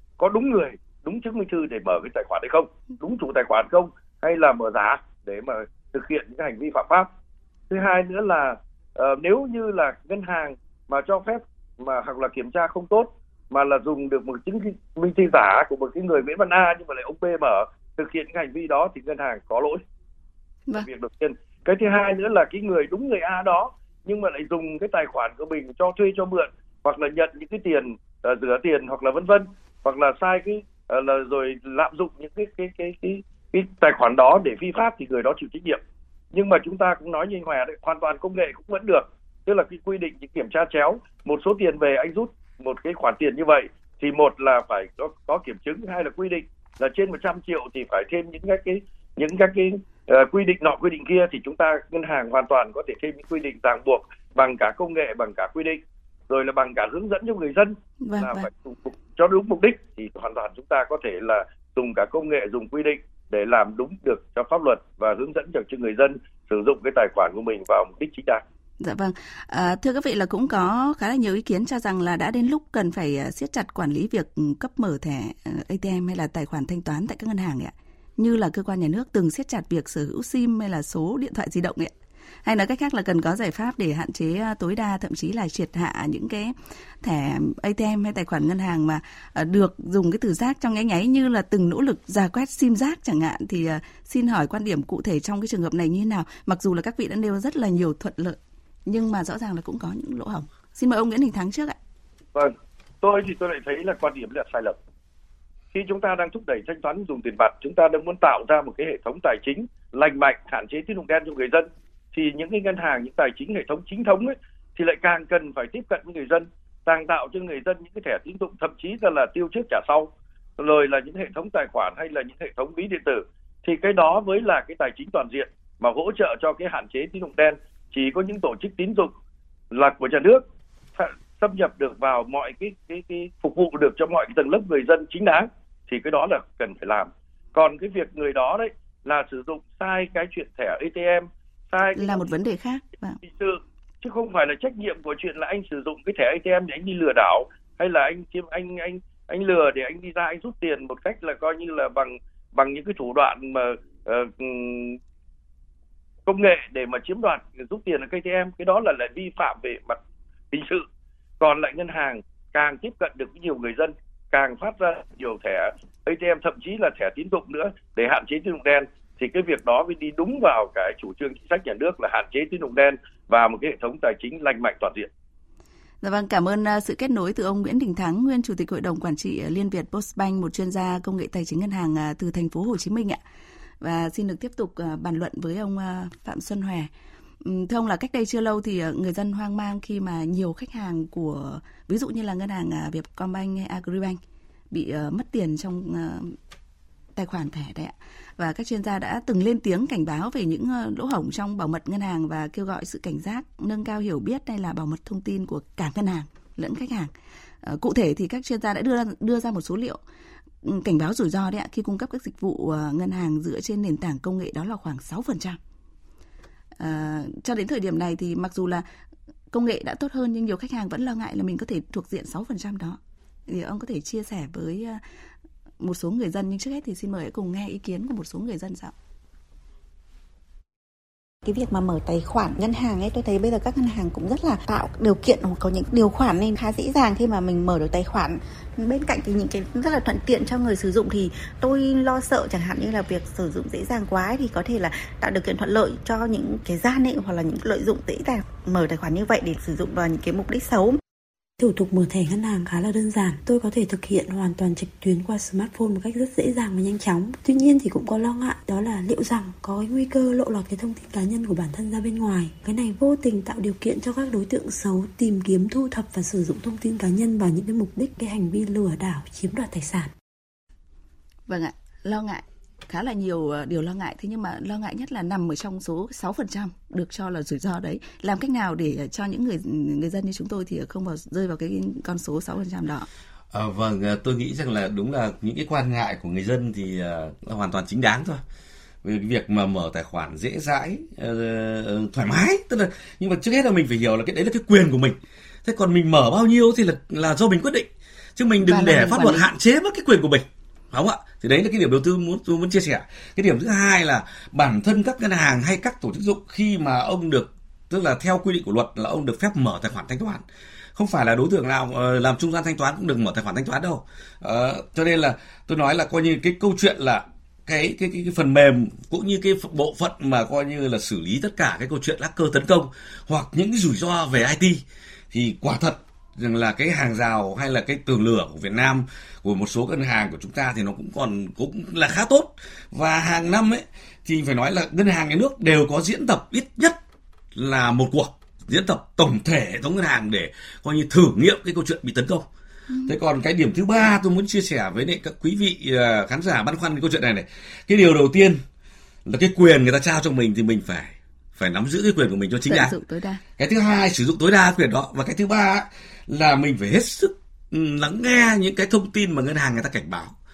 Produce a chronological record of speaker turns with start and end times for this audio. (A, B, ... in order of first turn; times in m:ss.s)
0:00.2-0:07.1 A
0:07.7-0:19.8 A
0:20.7-0:35.8 A
0:36.3-1:08.4 A
0:58.0-0:58.5 B
1:08.8-1:21.9 B
1:22.4-1:41.8 B
1:42.3-1:44.8 A
1:45.7-2:09.1 A
2:09.7-2:10.4 A
2:11.0-2:22.2 A
2:21.9-2:23.2 B
2:23.2-2:35.0 A
2:36.2-2:40.0 A
2:40.5-2:40.8 A
2:41.4-2:55.1 A
2:56.0-3:03.2 B
3:03.8-3:06.9 B
3:07.4-3:14.2 B
3:14.7-3:16.4 B
3:17.2-3:27.1 B
3:27.6-3:30.0 B
3:30.6-3:35.6 B
3:36.8-3:38.8 B
3:39.5-3:45.0 B
3:45.8-3:48.9 B
3:51.4-4:11.0 C
4:11.6-4:30.1 D
4:31.5-4:43.1 B
4:43.5-4:48.4 E
4:49.0-5:10.4 E
4:58.6-4:59.4 B
5:11.0-5:37.0 E
5:37.5-5:42.5 E
5:43.1-5:48.6 E
5:49.2-5:52.9 E
5:52.7-5:53.4 B
5:53.6-6:00.3 E